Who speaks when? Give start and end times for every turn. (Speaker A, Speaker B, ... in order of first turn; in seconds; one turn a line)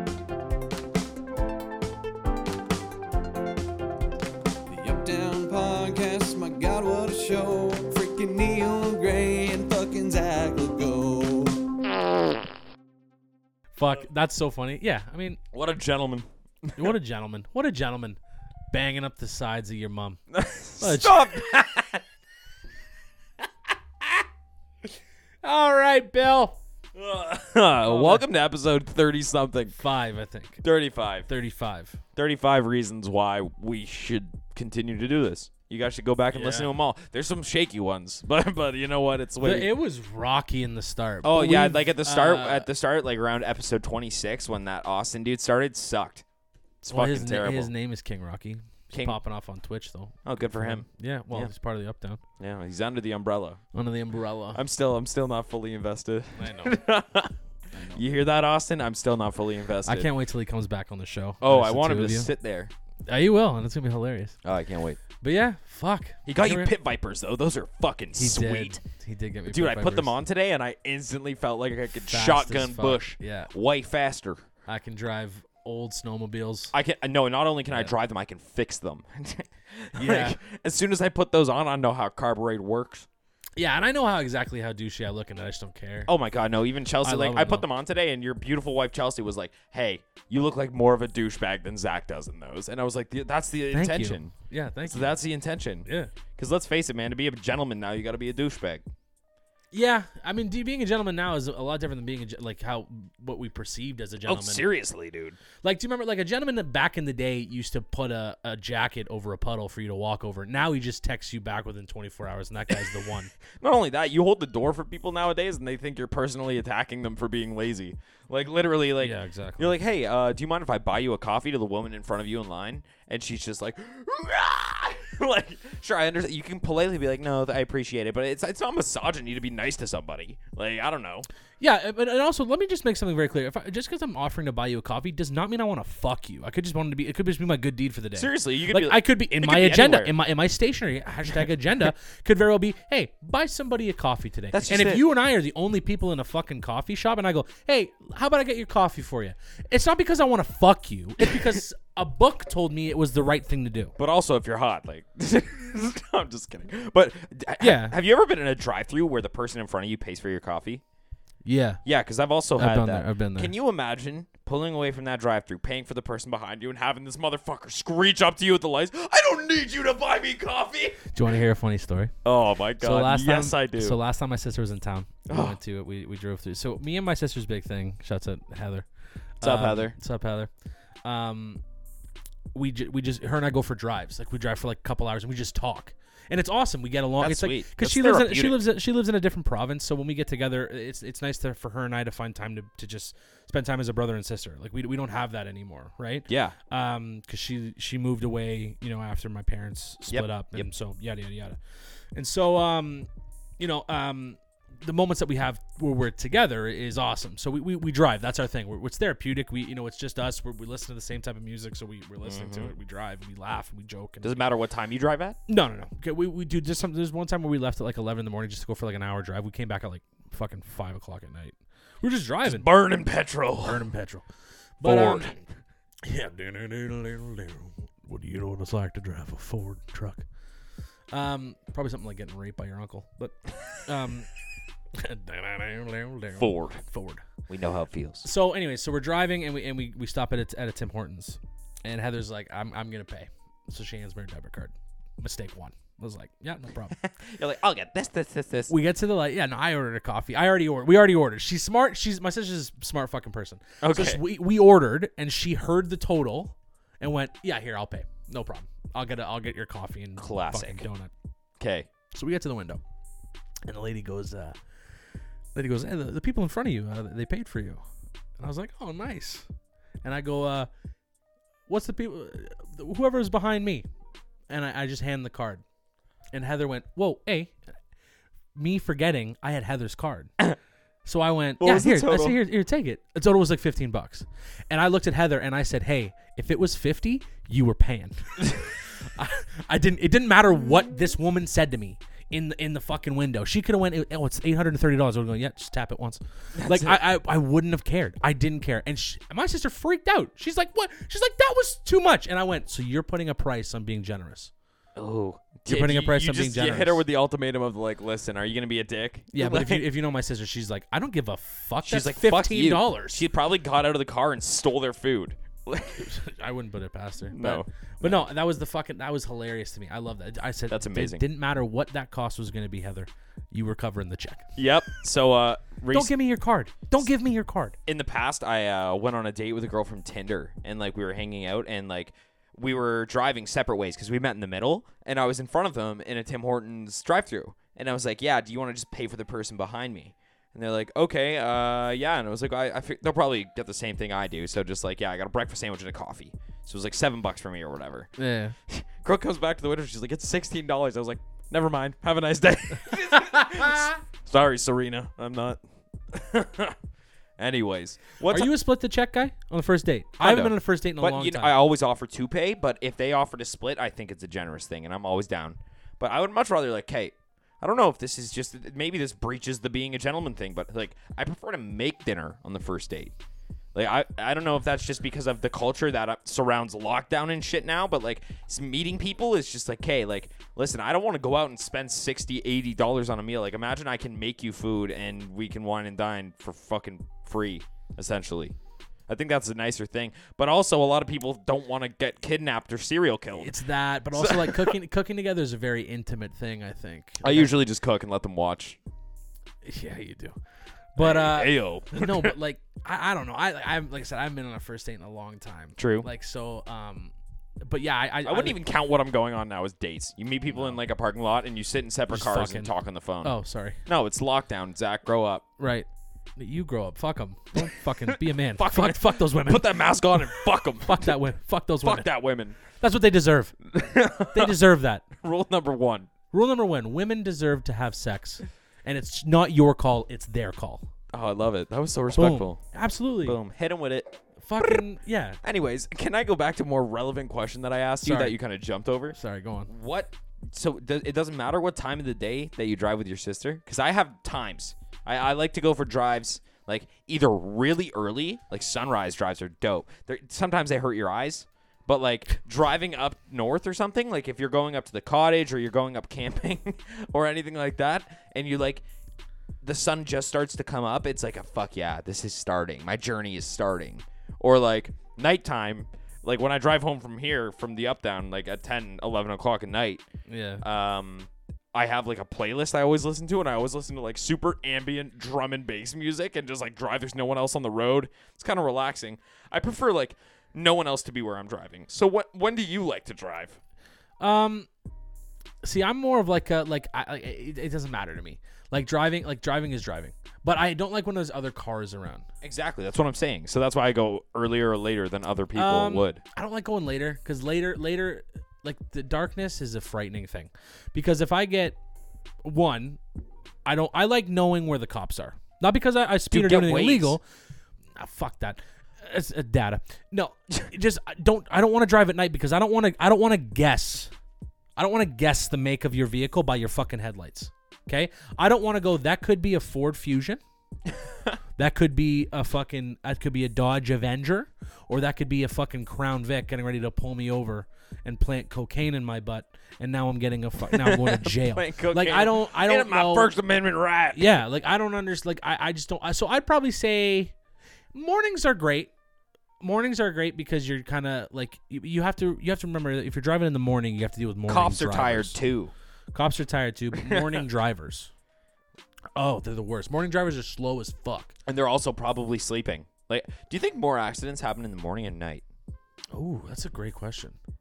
Speaker A: 4.7-11.6
Speaker B: 13.8-15.4
Speaker C: 15.5-16.9
Speaker B: 16.8-18.2
Speaker B: 18.7-20.2
Speaker C: 20.3-22.0
Speaker B: 20.8-21.4
Speaker B: 25.4-26.6
Speaker C: 26.9-29.8
Speaker B: 27.8-28.2
Speaker B: 29.8-30.6
Speaker C: 30.6-31.3
Speaker B: 31.3-32.0
Speaker C: 32.1-39.7
Speaker B: 36.3-36.7
Speaker B: 39.4-42.7
Speaker C: 41.2-46.2
Speaker C: 46.8-47.7
Speaker B: 46.9-52.2
Speaker C: 48.9-49.2
Speaker C: 50.2-51.5
Speaker C: 52.4-53.6
Speaker B: 53.7-54.6
Speaker C: 54.5-57.3
Speaker B: 56.4-56.8
Speaker B: 57.7-58.0
Speaker C: 57.9-60.1
Speaker B: 59.8-62.3
Speaker C: 61.4-62.7
Speaker B: 63.1-64.4
Speaker C: 64.4-65.0
Speaker B: 65.2-66.7
Speaker C: 66.2-68.8
Speaker B: 68.1-70.2
Speaker C: 69.5-74.4
Speaker B: 72.1-73.5
Speaker B: 74.7-76.7
Speaker C: 76.7-83.1
Speaker B: 80.0-80.4
Speaker B: 83.6-86.1
Speaker C: 86.1-94.3
Speaker B: 87.0-87.7
Speaker B: 93.7-95.2
Speaker C: 94.9-98.8
Speaker B: 95.8-96.1
Speaker B: 99.7-104.6
Speaker C: 104.2-105.4
Speaker B: 105.6-113.3
Speaker C: 113.6-131.3
Speaker B: 119.0-119.8
Speaker B: 131.6-153.9
Speaker C: 138.2-140.2
Speaker C: 144.5-145.1
Speaker C: 154.0-160.8
Speaker B: 157.6-157.9
Speaker B: 161.4-161.8
Speaker C: 161.8-171.0
Speaker B: 162.6-163.5
Speaker B: 171.1-172.1
Speaker C: 172.2-174.0
Speaker B: 172.8-178.8
Speaker C: 175.3-175.6
Speaker C: 179.4-179.9
Speaker B: 179.4-180.5
Speaker B: 181.0-181.6
Speaker B: 182.5-201.6
Speaker C: 187.2-188.6
Speaker C: 196.3-196.6
Speaker C: 200.1-200.7
Speaker B: 202.1-203.1
Speaker B: 203.6-214.4
Speaker C: 212.2-212.7
Speaker C: 214.2-215.4
Speaker B: 215.5-222.7
Speaker C: 222.4-223.8
Speaker B: 223.6-224.2
Speaker B: 224.8-225.3
Speaker C: 224.8-225.4
Speaker B: 226.0-230.2
Speaker B: 231.1-234.3
Speaker B: 234.9-237.2
Speaker C: 236.4-236.8
Speaker C: 237.5-238.2
Speaker B: 238.2-247.0
Speaker C: 247.0-248.7
Speaker B: 248.7-261.1
Speaker C: 253.8-254.2
Speaker C: 260.2-260.8
Speaker C: 261.6-261.9
Speaker B: 262.1-262.8
Speaker B: 263.6-264.6
Speaker B: 265.5-267.8
Speaker B: 268.4-269.4
Speaker B: 270.0-270.7
Speaker B: 271.7-273.8
Speaker B: 274.5-275.6
Speaker B: 276.3-277.5
Speaker B: 278.5-280.3
Speaker B: 281.0-304.5
Speaker C: 281.6-282.4
Speaker C: 296.6-297.0
Speaker C: 304.9-309.8
Speaker B: 305.7-307.0
Speaker B: 309.3-313.2
Speaker C: 311.8-316.1
Speaker B: 316.0-324.6
Speaker C: 317.3-318.3
Speaker C: 320.7-321.2
Speaker C: 324.6-326.1
Speaker B: 325.9-327.8
Speaker C: 327.9-348.1
Speaker B: 348.2-348.5
Speaker C: 348.7-355.6
Speaker B: 353.1-353.9
Speaker C: 356.1-356.8
Speaker C: 357.4-358.5
Speaker B: 358.3-361.5
Speaker C: 360.2-373.1
Speaker C: 373.7-388.6
Speaker C: 389.1-393.5
Speaker B: 393.4-397.6
Speaker C: 394.1-394.8
Speaker C: 397.2-398.8
Speaker B: 399.6-400.4
Speaker B: 400.9-408.6
Speaker C: 401.0-402.3
Speaker C: 405.8-406.1
Speaker C: 408.2-415.4
Speaker B: 410.5-410.8
Speaker B: 412.1-413.8
Speaker B: 415.6-419.7
Speaker C: 418.1-421.1
Speaker B: 420.8-422.1
Speaker C: 421.8-422.6
Speaker B: 422.6-423.6
Speaker C: 423.7-424.5
Speaker B: 424.2-425.1
Speaker C: 425.2-426.1
Speaker B: 426.3-430.9
Speaker C: 431.1-432.6
Speaker B: 432.1-433.4
Speaker C: 433.2-434.2
Speaker B: 434.4-435.4
Speaker C: 435.4-458.8
Speaker B: 438.0-438.4
Speaker B: 439.1-439.7
Speaker C: 459.6-470.0
Speaker B: 470.3-470.6
Speaker C: 470.6-483.6
Speaker B: 484.2-484.7
Speaker B: 485.6-492.2
Speaker C: 492.4-496.2
Speaker B: 495.5-501.8
Speaker B: 502.4-503.0
Speaker B: 503.6-507.2
Speaker C: 506.3-507.2
Speaker B: 507.9-514.1
Speaker B: 514.8-520.4
Speaker B: 521.6-533.3
Speaker C: 530.7-534.4
Speaker B: 534.1-537.3
Speaker B: 537.9-538.9
Speaker B: 539.6-545.4
Speaker C: 544.5-545.7
Speaker B: 546.1-548.1
Speaker C: 547.0-547.4
Speaker B: 549.1-551.3
Speaker C: 551.5-555.4
Speaker B: 556.1-557.4